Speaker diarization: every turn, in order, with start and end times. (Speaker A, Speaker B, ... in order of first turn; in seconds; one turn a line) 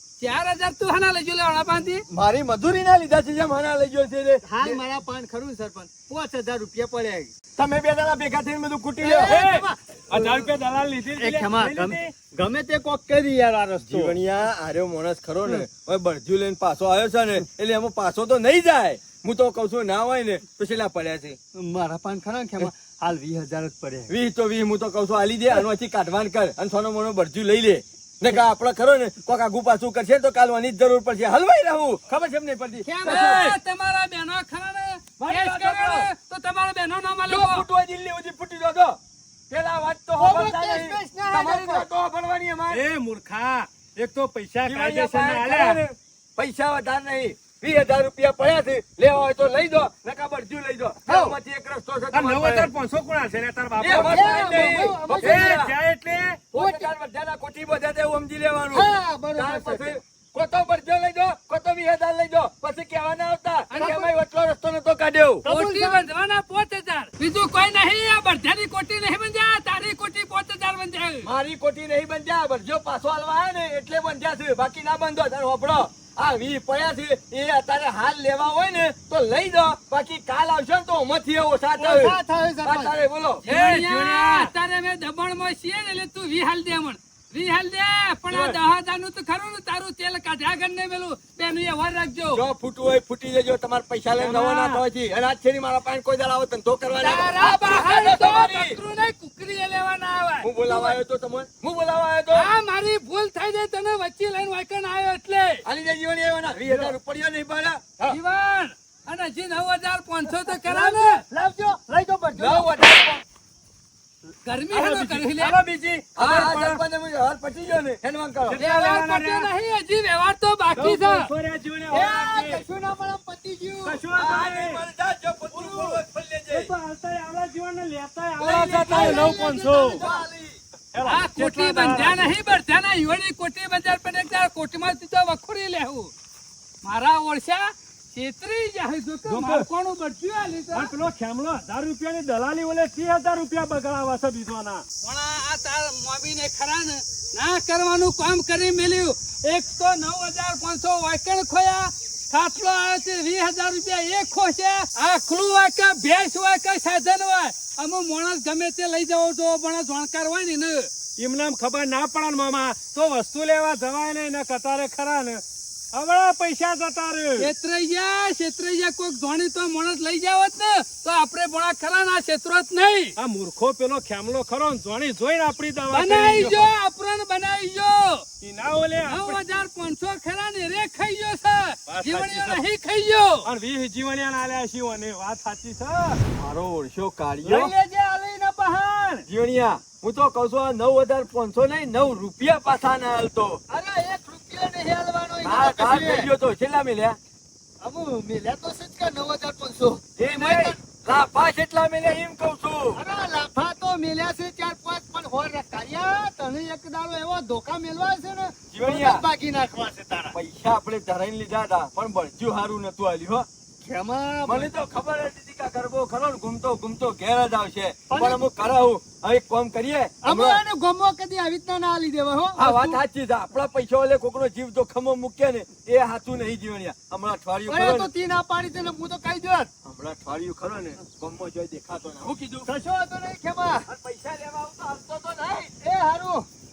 Speaker A: 0.2-2.0
Speaker B: 2.1-4.8
Speaker C: 4.4-7.3
Speaker B: 7.6-9.3
Speaker C: 9.0-10.5
Speaker D: 9.2-12.1
Speaker C: 11.1-14.2
Speaker B: 13.8-21.4
Speaker C: 21.6-24.1
Speaker B: 24.1-33.6
Speaker A: 32.9-37.6
Speaker B: 35.2-36.1
Speaker B: 37.3-39.0
Speaker B: 39.5-42.8
Speaker C: 40.2-41.9
Speaker D: 42.7-45.8
Speaker B: 44.6-52.7
Speaker C: 51.1-51.4
Speaker D: 52.1-56.5
Speaker B: 53.8-55.8
Speaker C: 53.9-55.6
Speaker B: 56.5-65.5
Speaker C: 56.5-56.9
Speaker C: 58.7-59.9
Speaker A: 63.7-64.1
Speaker C: 65.5-66.0
Speaker A: 65.5-71.3
Speaker B: 71.2-83.4
Speaker C: 81.8-83.0
Speaker A: 83.4-92.5
Speaker D: 83.5-84.5
Speaker D: 88.3-88.6
Speaker B: 92.3-98.8
Speaker D: 94.2-94.8
Speaker A: 97.0-101.0
Speaker B: 100.4-102.5
Speaker A: 102.3-105.6
Speaker B: 105.6-107.8
Speaker A: 108.1-111.2
Speaker C: 110.5-112.8
Speaker B: 112.4-113.2
Speaker A: 114.4-115.6
Speaker D: 114.7-116.8
Speaker B: 116.2-118.6
Speaker D: 118.5-119.5
Speaker A: 118.6-121.3
Speaker D: 120.8-122.6
Speaker C: 121.9-124.0
Speaker D: 123.8-124.8
Speaker B: 124.1-126.7
Speaker D: 125.5-130.0
Speaker B: 128.4-130.6
Speaker C: 128.5-130.3
Speaker D: 130.9-132.3
Speaker A: 131.1-136.1
Speaker A: 136.8-140.9
Speaker D: 139.3-139.7
Speaker D: 140.7-144.8
Speaker A: 145.0-160.9
Speaker D: 161.2-165.4
Speaker D: 165.9-167.5
Speaker A: 167.4-173.2
Speaker D: 173.2-176.7
Speaker A: 175.9-178.2
Speaker D: 178.4-179.4
Speaker A: 179.1-183.5
Speaker D: 181.9-182.6
Speaker D: 183.4-186.2
Speaker B: 186.3-187.7
Speaker C: 187.4-189.2
Speaker B: 189.3-193.6
Speaker C: 193.7-196.3
Speaker B: 195.4-197.2
Speaker C: 197.8-200.8
Speaker B: 200.2-203.0
Speaker C: 202.9-210.4
Speaker B: 208.7-209.2
Speaker B: 210.3-213.5
Speaker C: 213.8-214.7
Speaker B: 214.4-220.6
Speaker C: 218.1-218.4
Speaker C: 220.2-223.0
Speaker B: 222.6-228.1
Speaker C: 227.7-229.7
Speaker B: 229.8-232.7
Speaker C: 232.7-233.9
Speaker B: 233.9-235.7
Speaker C: 235.8-236.5